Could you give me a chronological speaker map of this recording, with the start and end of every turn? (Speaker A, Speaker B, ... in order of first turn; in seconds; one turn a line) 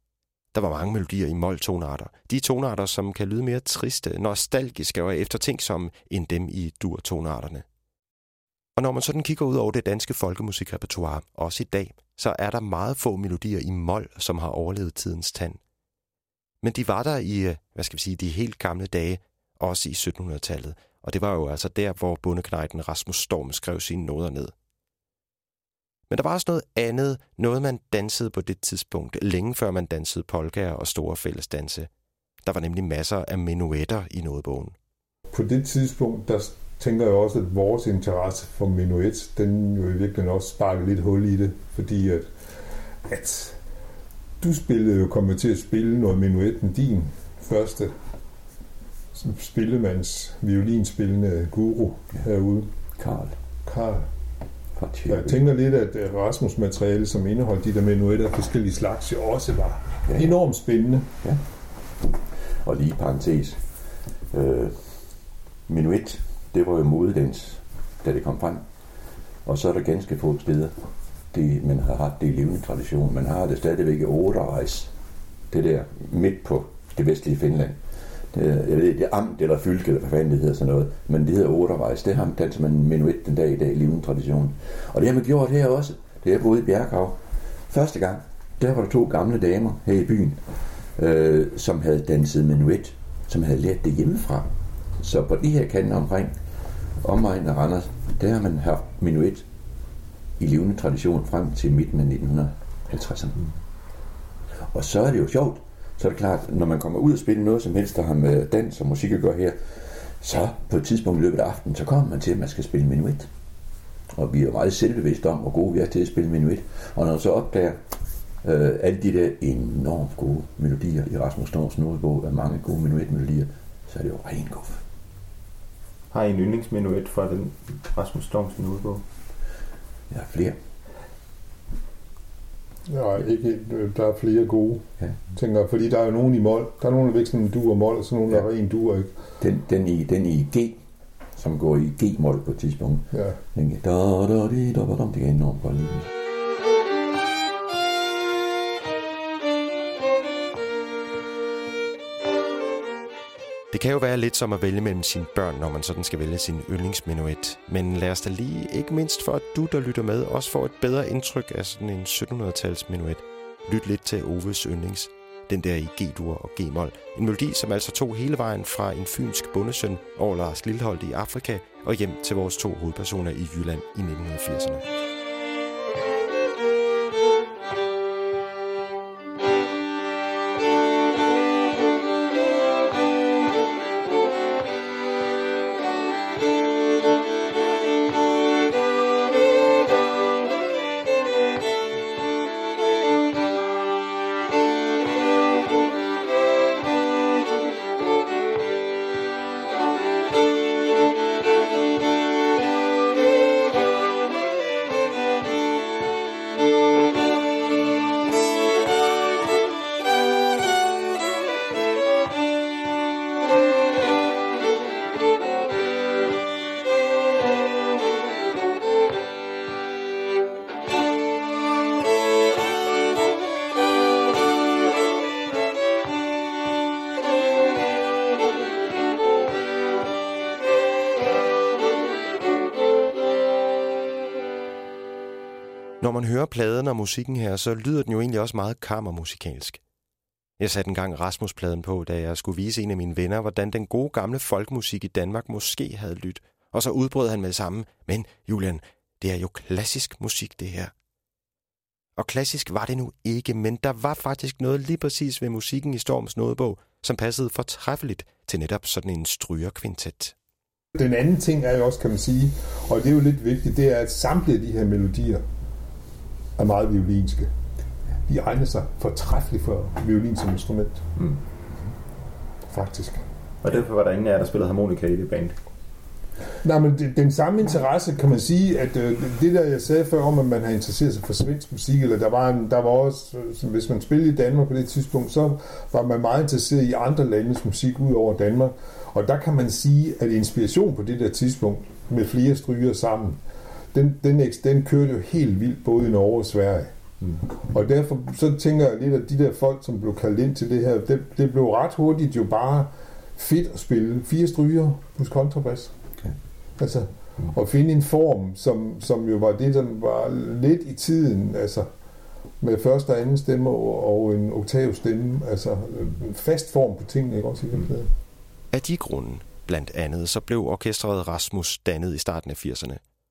Speaker A: 0.5-7.7
Speaker A: 8.8-15.6
Speaker A: 16.6-24.5
Speaker A: 26.1-31.9
Speaker A: 32.4-34.8
Speaker B: 35.3-42.3
Speaker B: 43.1-43.6
Speaker B: 44.4-47.9
Speaker B: 49.1-52.7
Speaker C: 53.0-53.4
Speaker B: 53.6-54.1
Speaker C: 54.8-55.4
Speaker B: 55.1-61.1
Speaker C: 60.1-60.3
Speaker C: 62.6-63.6
Speaker C: 64.3-64.8
Speaker C: 65.7-68.6
Speaker C: 69.5-70.8
Speaker C: 71.3-74.9
Speaker C: 75.5-77.8
Speaker C: 78.3-90.4
Speaker C: 91.0-96.3
Speaker C: 97.0-99.5
Speaker C: 100.4-103.5
Speaker C: 104.7-113.3
Speaker C: 114.1-117.8
Speaker C: 118.4-124.8
Speaker D: 126.1-129.0
Speaker C: 130.1-130.6
Speaker B: 132.9-139.1
Speaker C: 139.4-140.8
Speaker C: 141.4-146.1
Speaker B: 143.1-143.4
Speaker A: 153.7-174.9
Speaker A: 236.0-239.8
Speaker A: 240.6-250.9
Speaker A: 252.2-260.4
Speaker B: 260.9-265.4
Speaker B: 266.6-267.5
Speaker B: 268.3-271.0
Speaker B: 272.7-273.2
Speaker D: 273.6-275.6
Speaker B: 276.6-293.4
Speaker B: 293.9-296.9
Speaker B: 297.6-305.9
Speaker B: 306.8-311.9
Speaker B: 312.6-318.1
Speaker A: 318.7-323.0